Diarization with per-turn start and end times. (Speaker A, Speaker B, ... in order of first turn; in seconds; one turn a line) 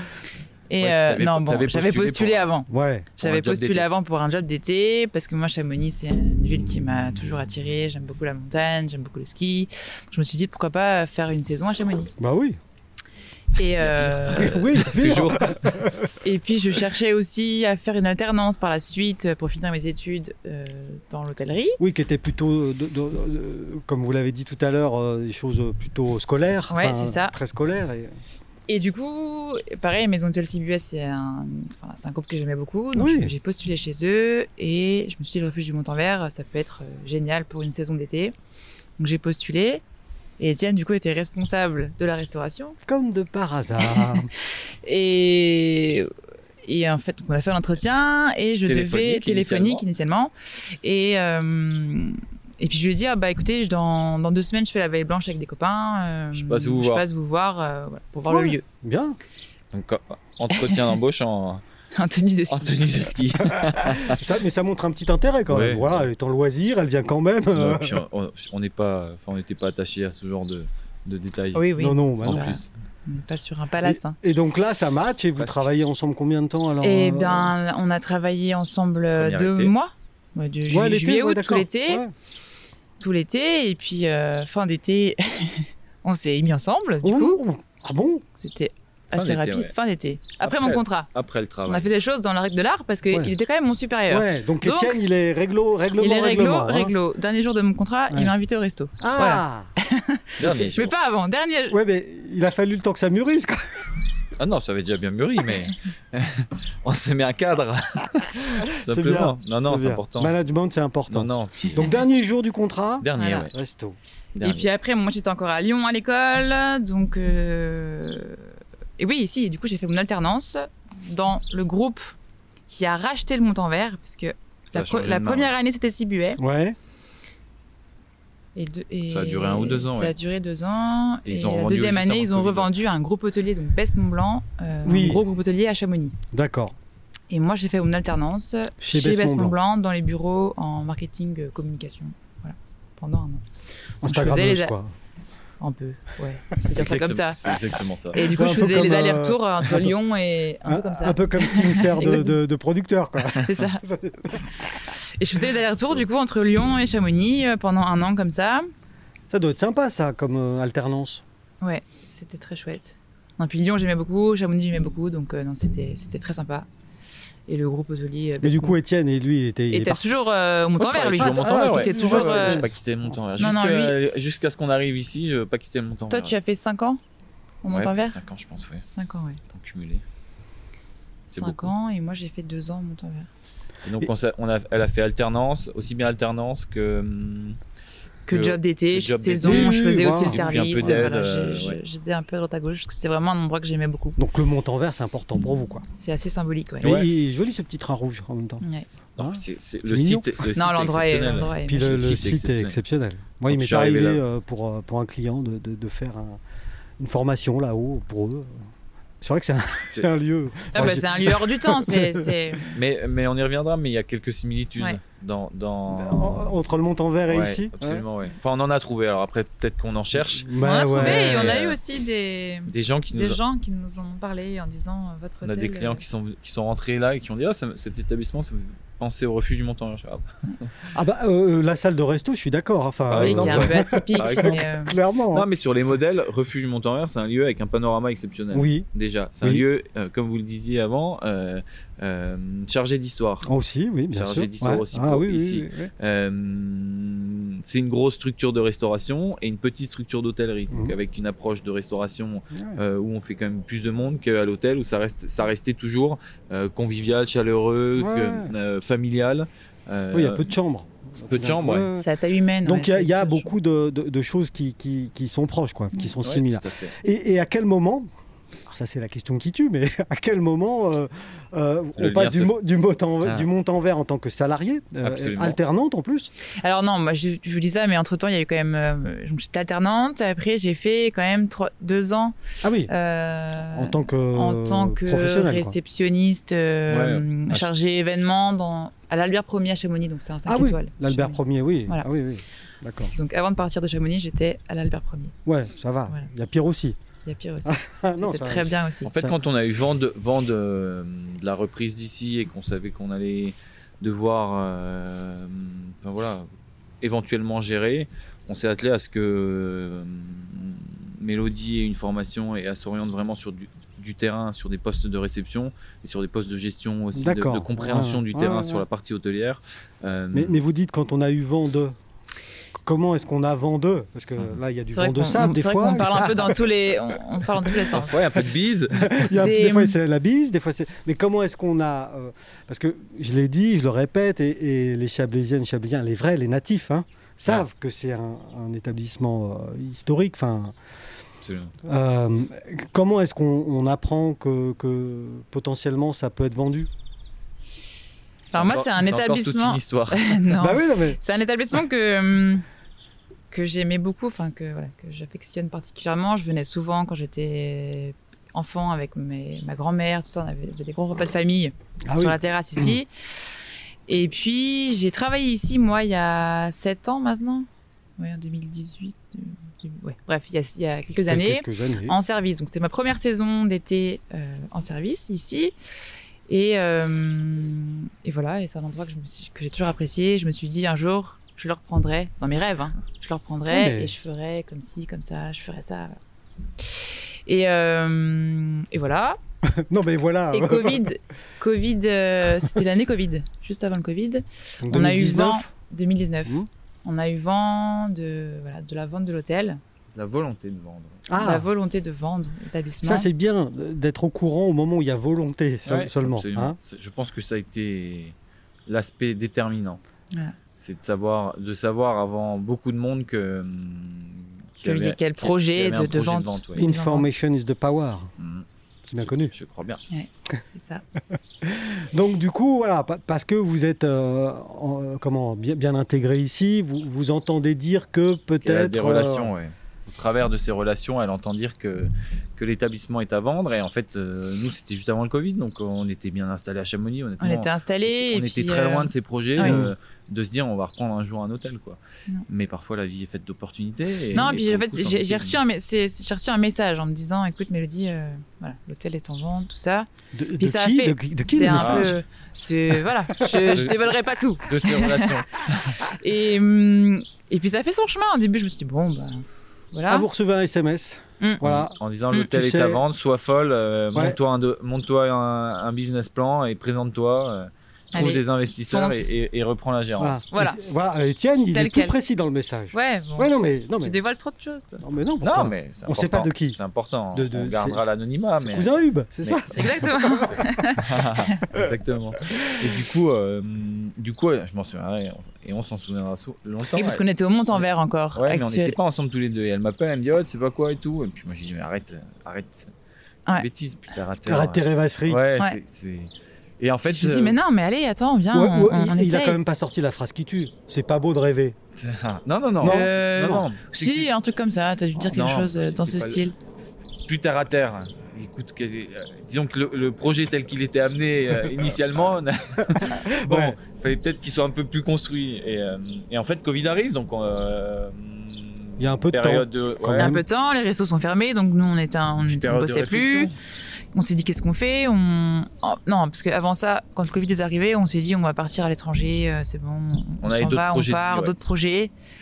Speaker A: 0.7-12.1
Speaker B: 0.8-2.5
Speaker C: 2.7-3.1
Speaker B: 3.2-3.9
Speaker C: 12.2-12.6
Speaker A: 13.6-15.3
Speaker B: 13.8-15.6
Speaker C: 14.3-16.1
Speaker A: 16.2-21.8
Speaker C: 21.8-28.1
Speaker A: 26.7-27.3
Speaker A: 28.7-38.4
Speaker C: 33.0-33.3
Speaker A: 39.0-39.8
Speaker A: 40.4-42.8
Speaker C: 42.9-44.3
Speaker A: 43.8-46.1
Speaker A: 46.6-58.6
Speaker B: 48.6-49.9
Speaker B: 56.3-57.0
Speaker C: 58.3-59.2
Speaker B: 59.7-61.6
Speaker A: 62.0-63.1
Speaker B: 62.5-64.2
Speaker C: 63.5-68.0
Speaker B: 65.5-66.1
Speaker B: 67.5-72.7
Speaker A: 71.5-74.2
Speaker C: 71.8-72.6
Speaker C: 73.8-77.5
Speaker B: 75.4-75.7
Speaker A: 76.8-82.0
Speaker B: 79.2-79.7
Speaker C: 80.7-82.1
Speaker A: 83.0-87.4
Speaker C: 87.0-88.2
Speaker A: 88.4-91.1
Speaker B: 89.1-89.7
Speaker B: 90.4-91.9
Speaker A: 91.7-95.0
Speaker C: 94.1-96.9
Speaker A: 96.0-101.8
Speaker C: 99.0-99.7
Speaker B: 100.4-100.9
Speaker C: 101.7-103.9
Speaker B: 104.4-110.3
Speaker C: 108.8-114.0
Speaker B: 111.1-111.9
Speaker B: 113.0-113.5
Speaker A: 113.2-113.5
Speaker B: 114.4-114.7
Speaker A: 114.4-122.2
Speaker A: 122.7-126.4
Speaker B: 124.7-125.5
Speaker C: 126.4-126.8
Speaker A: 128.6-136.2
Speaker B: 129.1-130.1
Speaker B: 131.3-132.7
Speaker C: 134.8-135.2
Speaker C: 136.3-136.8
Speaker A: 137.3-143.4
Speaker C: 138.8-139.6
Speaker C: 144.0-144.9
Speaker A: 144.1-144.7
Speaker A: 145.6-147.6
Speaker B: 146.6-148.3
Speaker A: 148.1-152.4
Speaker C: 148.2-149.9
Speaker C: 150.7-154.7
Speaker A: 153.3-153.9
Speaker A: 155.0-158.7
Speaker C: 159.3-161.2
Speaker A: 161.6-166.7
Speaker A: 167.5-168.8
Speaker C: 168.4-170.0
Speaker A: 169.7-172.7
Speaker B: 170.8-176.3
Speaker C: 171.2-172.7
Speaker A: 173.4-174.0
Speaker A: 176.1-177.0
Speaker A: 177.6-178.2
Speaker B: 177.7-178.9
Speaker A: 178.9-179.4
Speaker B: 179.5-180.0
Speaker A: 181.3-183.3
Speaker B: 181.3-181.7
Speaker B: 183.8-187.6
Speaker A: 188.3-194.2
Speaker B: 188.3-191.8
Speaker C: 189.4-191.1
Speaker C: 194.2-195.9
Speaker A: 195.9-197.0
Speaker B: 196.8-197.1
Speaker C: 196.8-198.6
Speaker A: 198.6-198.9
Speaker B: 199.2-202.8
Speaker C: 199.2-200.5
Speaker A: 200.6-202.0
Speaker C: 201.7-206.4
Speaker B: 203.5-204.2
Speaker C: 207.0-208.7
Speaker C: 209.2-212.7
Speaker A: 210.7-212.7
Speaker B: 212.7-216.5
Speaker C: 215.9-218.1
Speaker B: 217.3-221.8
Speaker C: 220.2-221.6
Speaker A: 220.6-226.0
Speaker B: 222.7-223.4
Speaker B: 225.4-230.3
Speaker C: 230.9-235.5
Speaker B: 233.1-234.7
Speaker A: 233.1-235.0
Speaker B: 235.3-243.5
Speaker C: 238.5-238.9
Speaker C: 243.4-245.9
Speaker B: 244.1-260.5
Speaker C: 250.7-251.0
Speaker C: 252.5-252.8
Speaker C: 258.0-258.5
Speaker C: 260.1-262.1
Speaker B: 261.3-261.9
Speaker A: 262.0-263.5
Speaker C: 262.6-268.1
Speaker B: 266.2-266.9
Speaker C: 268.7-276.3
Speaker B: 272.0-272.5
Speaker B: 275.0-275.6
Speaker A: 276.6-282.4
Speaker C: 282.6-282.9
Speaker A: 282.9-292.1
Speaker C: 283.7-285.8
Speaker B: 286.9-287.7
Speaker C: 290.5-293.1
Speaker A: 293.2-295.3
Speaker C: 295.5-297.0
Speaker A: 297.2-299.1
Speaker C: 297.6-299.4
Speaker B: 299.1-306.5
Speaker B: 307.0-320.6
Speaker C: 317.1-318.9
Speaker C: 320.3-322.0
Speaker C: 322.8-326.6
Speaker A: 324.9-328.2
Speaker C: 327.6-340.8
Speaker B: 327.9-329.4
Speaker A: 329.2-330.0
Speaker B: 341.4-341.8
Speaker C: 341.8-346.9
Speaker B: 348.5-350.4
Speaker A: 348.5-352.6
Speaker C: 350.6-351.2
Speaker A: 353.5-363.5
Speaker C: 362.1-363.0
Speaker A: 364.1-367.7
Speaker A: 368.2-375.8
Speaker C: 371.2-372.2
Speaker A: 376.5-386.2
Speaker C: 383.7-384.1
Speaker A: 386.8-389.4
Speaker C: 389.6-391.1
Speaker A: 390.5-399.8
Speaker C: 394.8-395.7
Speaker B: 400.1-401.2
Speaker C: 401.3-401.7
Speaker A: 401.4-403.3
Speaker C: 403.0-406.8
Speaker B: 405.9-408.4
Speaker B: 408.9-410.0
Speaker B: 410.8-416.9
Speaker A: 414.9-417.4
Speaker C: 416.8-418.3
Speaker B: 418.4-418.7
Speaker C: 419.0-419.5
Speaker B: 419.2-420.0
Speaker A: 420.1-421.0
Speaker C: 421.6-429.5
Speaker B: 428.6-445.6
Speaker A: 437.4-439.8
Speaker C: 439.6-439.9
Speaker A: 444.3-450.1
Speaker C: 450.3-452.2
Speaker A: 450.6-455.4
Speaker B: 451.7-452.2
Speaker C: 453.4-453.8
Speaker B: 453.6-454.0
Speaker B: 454.6-456.0
Speaker A: 456.0-460.3
Speaker C: 460.1-462.0
Speaker B: 461.6-470.4
Speaker C: 462.5-463.0
Speaker A: 468.1-469.3
Speaker C: 470.2-474.2
Speaker A: 470.5-470.8
Speaker A: 471.7-472.2
Speaker A: 472.9-475.0
Speaker C: 475.0-476.8
Speaker B: 475.4-478.9
Speaker C: 477.3-478.1
Speaker C: 478.6-480.5
Speaker B: 479.4-487.2
Speaker A: 479.7-481.6
Speaker A: 486.9-489.0
Speaker B: 488.4-492.9
Speaker B: 493.6-497.6
Speaker C: 494.5-495.4
Speaker A: 497.1-499.6
Speaker C: 498.5-501.8
Speaker B: 502.0-504.3
Speaker C: 502.8-503.7
Speaker A: 502.8-506.5
Speaker B: 505.2-506.4
Speaker B: 507.3-520.4
Speaker C: 512.9-513.8
Speaker C: 519.0-520.4
Speaker A: 520.2-523.5
Speaker B: 522.5-523.5
Speaker A: 524.1-532.1
Speaker B: 530.4-531.5